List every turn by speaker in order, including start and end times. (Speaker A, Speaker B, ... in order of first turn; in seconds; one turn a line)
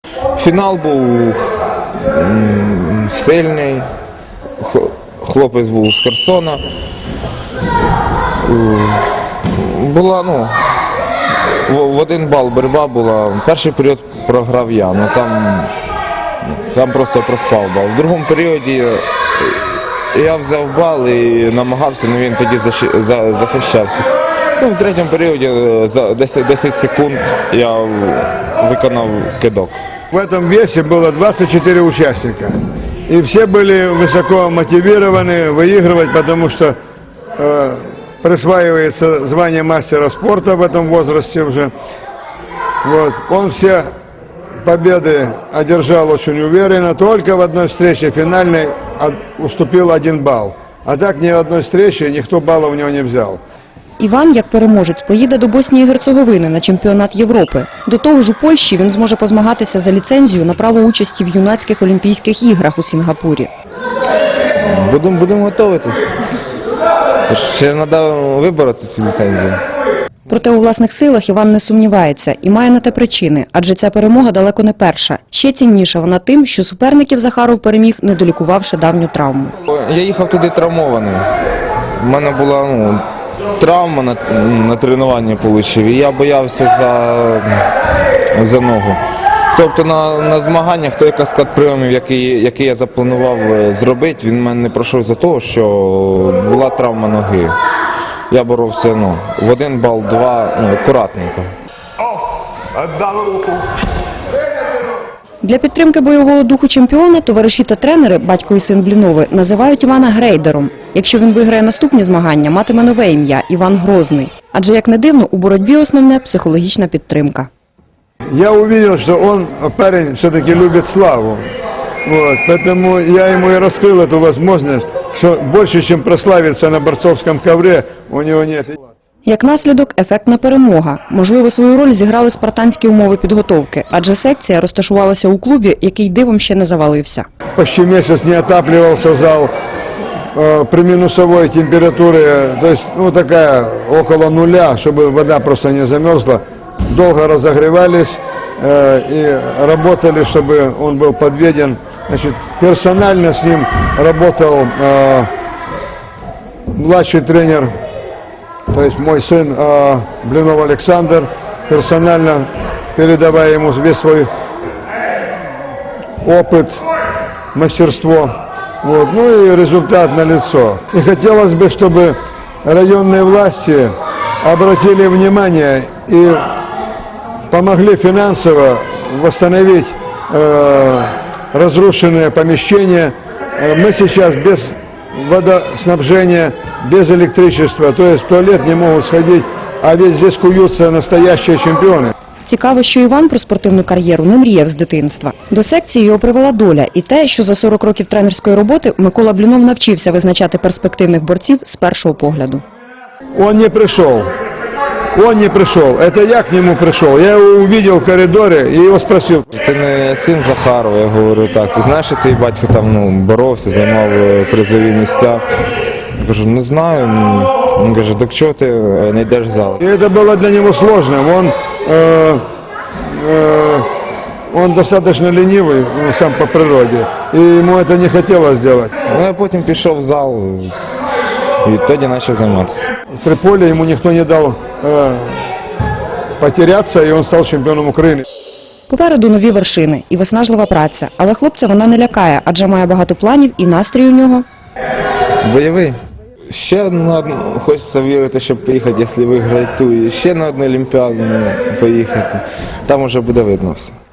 Speaker A: 0.3-3.9
Speaker A: 4.6-6.6
Speaker A: 8.4-10.6
Speaker A: 11.7-15.7
Speaker A: 16.4-29.8
Speaker B: 30.1-32.5
Speaker B: 33.1-36.7
Speaker B: 37.4-41.7
Speaker B: 42.8-43.9
Speaker B: 44.6-53.4
Speaker C: 54.0-63.5
Speaker A: 64.7-66.1
Speaker A: 67.3-69.6
Speaker C: 70.3-79.5
Speaker A: 79.6-81.3
Speaker A: 82.0-83.0
Speaker A: 83.6-87.6
Speaker A: 88.3-89.0
Speaker A: 89.5-97.5
Speaker A: 98.3-101.5
Speaker A: 103.0-103.5
Speaker C: 105.4-117.5
Speaker B: 118.3-121.4
Speaker B: 122.0-128.8
Speaker C: 129.2-137.2
Speaker B: 137.6-139.5
Speaker B: 140.3-155.3
Speaker B: 156.7-157.7
Speaker B: 158.7-164.3
Speaker B: 166.2-166.8
Speaker B: 167.5-176.5
Speaker B: 177.5-192.1
Speaker C: 192.4-202.6
Speaker B: 203.3-204.3
Speaker B: 205.1-209.5
Speaker A: 209.5-215.4
Speaker A: 216.1-219.8
Speaker B: 219.8-222.4
Speaker B: 223.0-223.9
Speaker B: 224.5-228.9
Speaker A: 229.1-230.8
Speaker A: 231.6-232.9
Speaker B: 233.1-235.4
Speaker B: 236.4-238.2
Speaker C: 238.9-244.4
Speaker A: 245.4-246.0
Speaker A: 246.5-253.9